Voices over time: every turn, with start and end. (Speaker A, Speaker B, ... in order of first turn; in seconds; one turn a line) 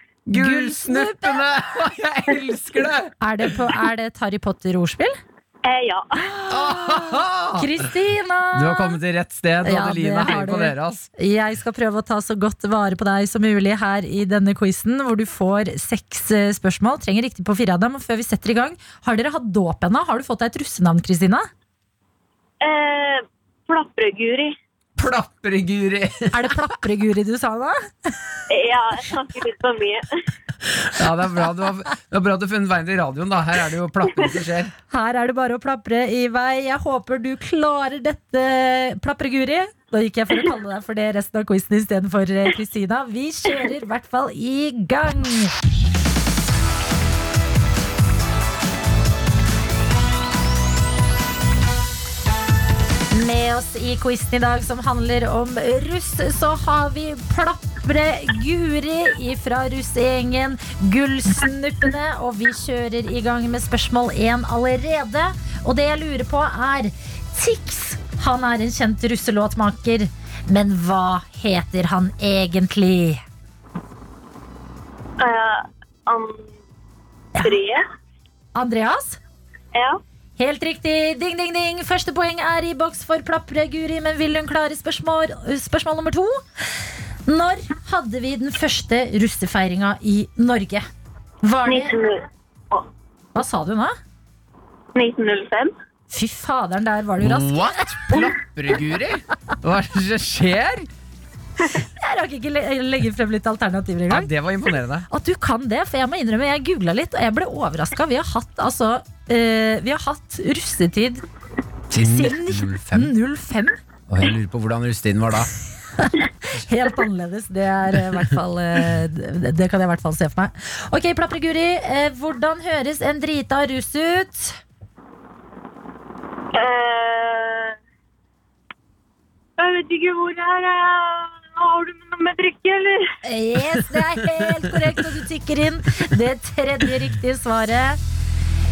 Speaker A: 0.3-3.1
Speaker B: 0.3-1.5
Speaker B: 3.2-5.2
Speaker C: 5.7-6.1
Speaker B: 6.4-9.0
Speaker A: 6.5-7.8
Speaker A: 8.5-11.1
Speaker B: 9.6-21.5
Speaker C: 22.6-24.5
Speaker A: 25.0-26.5
Speaker B: 26.3-28.2
Speaker C: 28.5-30.1
Speaker A: 30.8-34.7
Speaker B: 34.9-45.5
Speaker B: 53.1-73.2
Speaker C: 75.2-76.4
Speaker B: 77.4-77.6
Speaker C: 77.4-77.8
Speaker B: 78.5-79.2
Speaker B: 80.4-86.4
Speaker B: 87.3-90.8
Speaker B: 91.4-92.0
Speaker C: 91.7-92.2
Speaker B: 93.3-94.0
Speaker C: 95.0-95.7
Speaker B: 96.1-98.2
Speaker A: 97.2-100.9
Speaker B: 102.0-104.3
Speaker A: 104.1-105.1
Speaker B: 105.1-111.2
Speaker A: 111.9-113.1
Speaker B: 112.0-113.8
Speaker A: 114.1-115.5
Speaker B: 116.0-124.6
Speaker C: 126.5-127.7
Speaker C: 129.6-133.0
Speaker B: 133.2-138.0